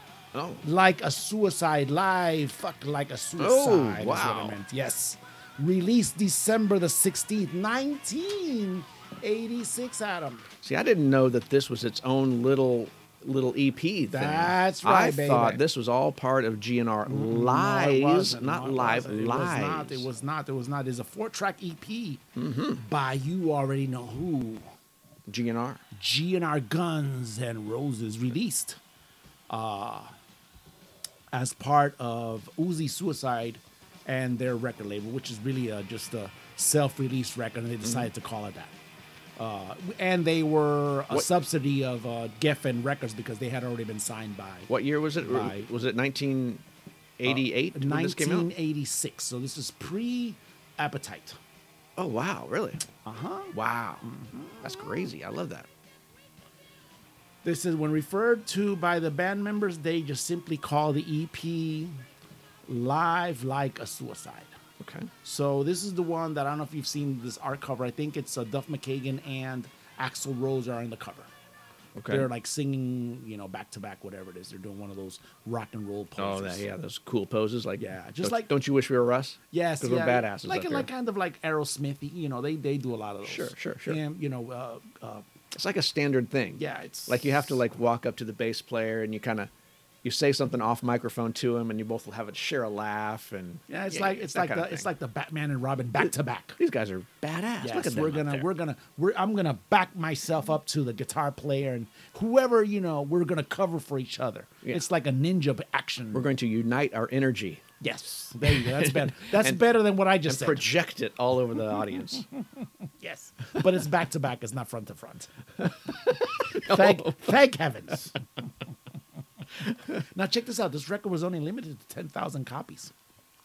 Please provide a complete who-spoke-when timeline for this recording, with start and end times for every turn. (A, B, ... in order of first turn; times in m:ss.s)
0:00.3-0:00.6 A
0:00.6-0:10.5 B
0:03.4-0:04.6 A
0:10.6-0:20.1 A
0:14.1-0:15.6 B
0:17.1-0:22.2 B
0:22.4-0:22.8 A
0:22.8-0:24.7 B
0:25.3-0:25.8 A
0:25.9-0:28.8 B
0:29.5-0:30.1 B
0:31.3-0:38.7 B
0:37.8-0:38.1 A
0:39.4-0:45.7 B
0:44.7-0:46.6 A
0:47.2-0:48.5 A
0:47.2-0:51.4 B
0:52.0-0:52.8 A
0:53.0-0:54.6 B
0:53.5-0:54.1 A
0:54.6-0:55.7 A
0:57.4-1:02.0 B
1:02.7-1:04.5 B
1:04.8-1:05.1 A
1:05.2-1:11.3 B
1:12.0-1:12.3 A
1:12.1-1:16.6 B
1:16.2-1:20.9 A
1:17.8-1:18.5 B
1:19.5-1:25.2 B
1:23.2-1:24.0 A
1:25.5-1:29.5 A
1:26.6-1:27.4 B
1:30.0-1:34.9 A
1:33.7-1:36.6 B
1:36.0-1:38.5 A
1:37.6-1:46.3 B
1:46.1-1:47.6 A
1:47.8-1:50.7 B
1:48.4-1:52.3 A
1:53.0-1:55.3 B
1:55.6-1:57.4 A
1:56.5-1:58.2 B
2:00.0-2:02.9 B